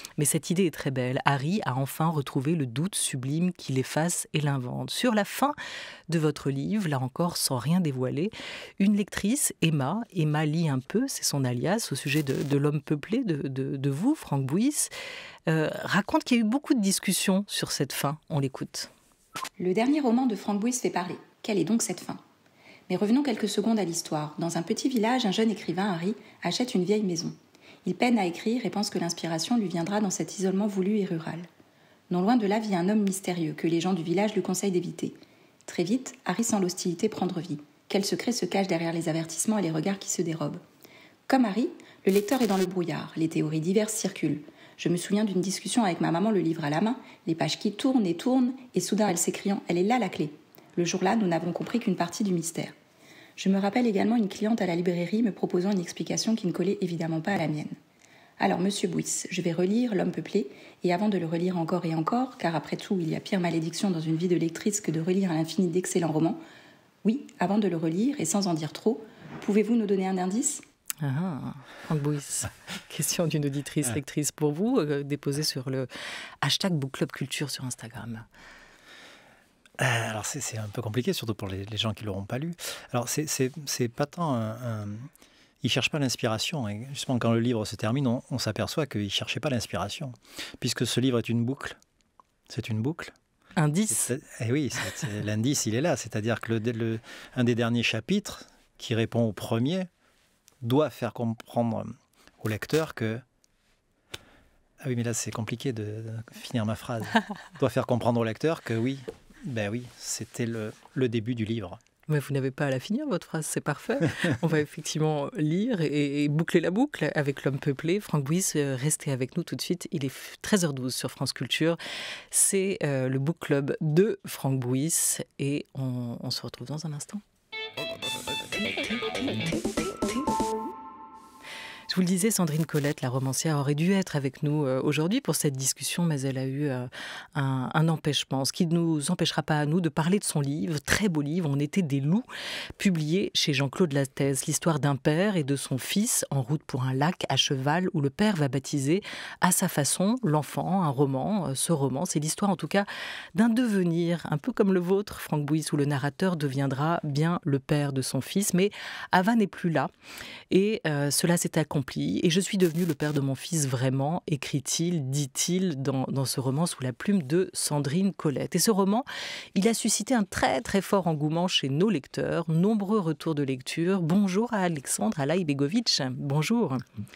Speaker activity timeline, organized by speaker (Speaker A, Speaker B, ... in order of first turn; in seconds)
Speaker A: 0.2-5.5, 6.1-14.9, 15.5-18.9, 71.0-75.9, 76.4-78.2, 93.6-94.1, 112.1-121.8, 122.3-127.2, 128.6-130.2, 131.9-142.2, 142.8-159.9, 160.5-176.8
Speaker B: 19.6-22.2, 22.9-31.5, 32.1-40.6, 41.3-52.7, 53.4-57.8, 58.4-66.4, 67.0-70.6
Speaker C: 79.8-85.1, 85.6-91.8, 92.5-93.1, 93.9-99.9, 100.6-103.2, 104.8-111.8